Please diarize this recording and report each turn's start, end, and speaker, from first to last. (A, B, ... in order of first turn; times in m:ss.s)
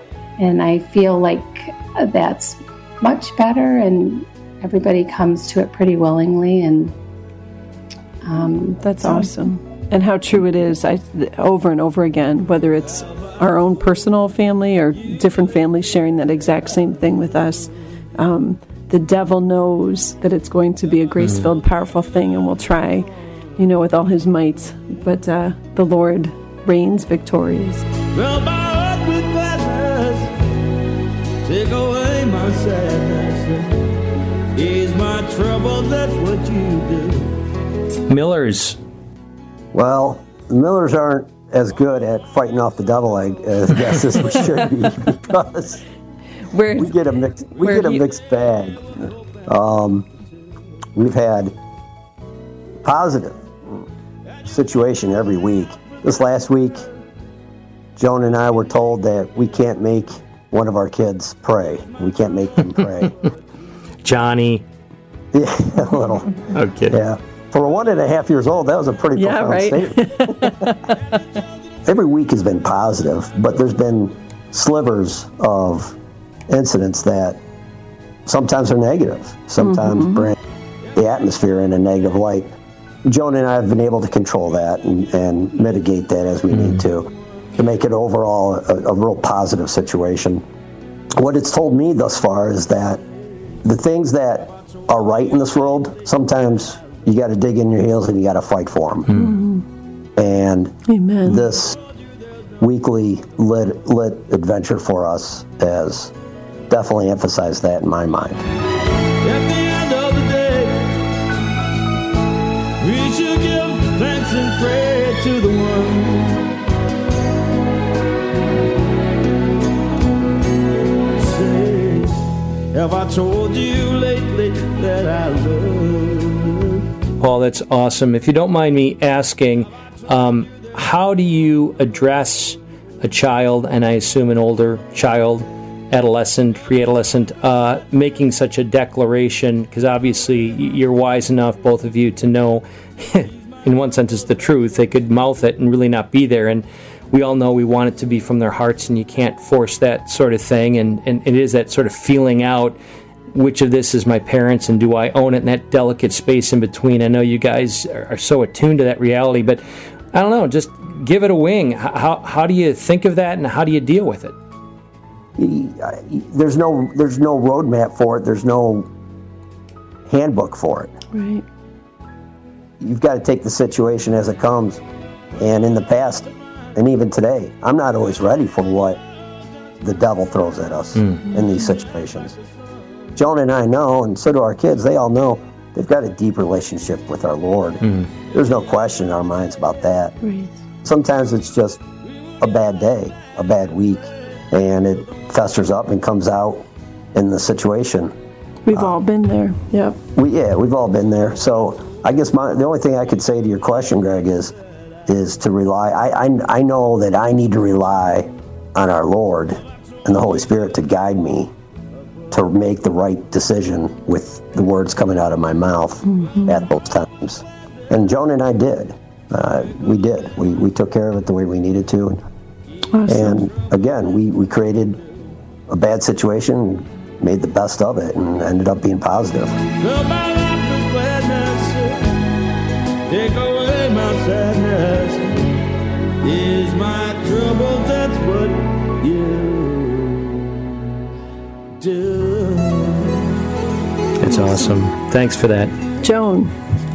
0:00.4-0:07.0 A
0:08.2-0:09.2 A
0:08.8-0:27.9 B
0:21.2-0:21.5 C
0:28.1-0:30.4 D
0:31.4-0:33.7 D
0:34.6-0:37.3 D
0:38.1-0:38.8 C
0:39.7-0:45.8 E
0:46.5-0:47.0 B
0:46.8-0:48.9 E
0:47.6-0:48.0 B
0:49.5-0:50.1 E
0:51.0-0:51.5 E
0:52.8-0:53.8 E
0:54.4-0:56.9 E
0:58.0-1:03.1 E
1:04.0-1:04.6 C
1:05.3-1:06.3 E
1:06.5-1:07.0 C
1:06.9-1:10.5 E
1:09.2-1:11.2 B
1:11.9-1:16.0 E
1:16.5-1:17.4 E
1:18.3-1:20.4 E
1:19.6-1:20.3 B
1:21.0-1:22.5 E
1:23.1-1:30.4 E
1:26.5-1:26.8 C
1:31.2-1:33.0 E
1:33.6-1:39.1 E
1:39.1-1:39.4 C
1:39.1-1:39.7 B
1:40.2-1:41.8 E
1:40.9-1:41.5 B
1:42.6-1:46.1 E
1:46.7-1:48.4 E
1:49.2-1:50.9 D
1:52.8-1:56.4 D
2:01.1-2:06.8 D
2:07.2-2:32.8 C
2:33.3-2:39.6 C
2:40.1-2:44.4 C
2:45.4-2:48.9 E
2:50.1-2:50.9 E
2:51.1-2:51.4 B
2:52.8-2:54.8 E
2:55.4-2:59.0 E
2:59.8-3:02.4 E
3:01.3-3:01.7 B
3:03.2-3:10.2 E
3:07.8-3:08.1 C
3:10.2-3:10.5 B
3:10.8-3:11.8 E
3:12.4-3:18.1 E
3:18.6-3:20.0 B
3:20.2-3:24.5 E
3:25.1-3:31.5 E
3:32.3-3:42.2 E
3:36.0-3:36.7 B
3:42.9-3:43.4 B
3:43.1-3:45.0 E
3:45.7-3:49.6 E
3:49.8-3:52.1 D
3:53.1-3:55.4 D
3:56.2-4:00.4 D
4:01.8-4:03.2 D
4:04.2-4:05.8 C
4:06.0-4:06.6 B